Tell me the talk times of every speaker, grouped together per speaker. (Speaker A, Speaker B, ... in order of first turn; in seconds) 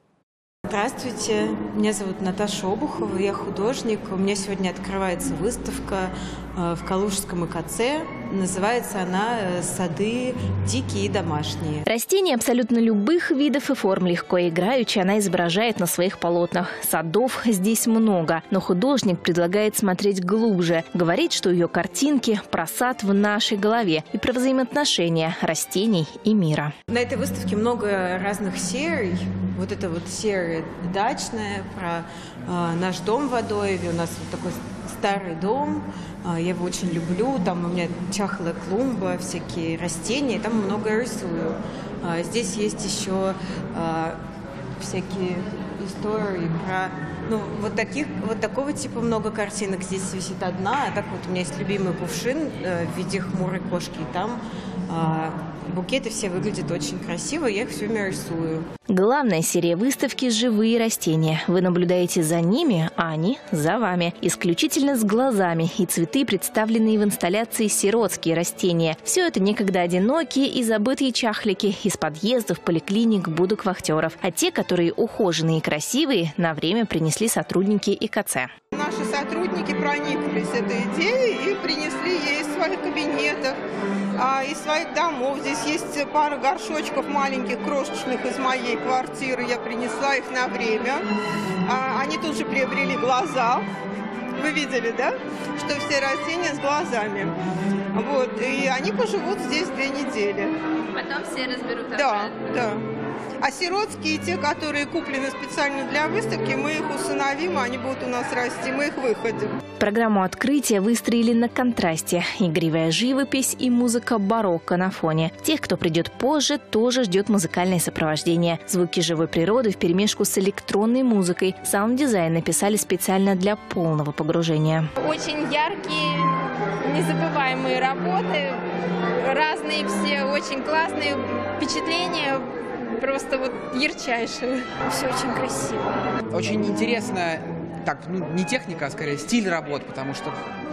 Speaker A: 0.7-11.8, 26.9-44.2, 44.8-58.6
Speaker B: 11.8-26.7, 58.9-78.5, 109.8-124.9
Speaker C: 78.7-83.6, 84.2-91.0, 91.7-93.6, 94.4-97.3, 97.9-100.5, 101.9-102.8, 103.4-109.5
Speaker D: 100.9-102.3, 125.0-128.6, 129.2-135.9
Speaker E: 136.3-140.3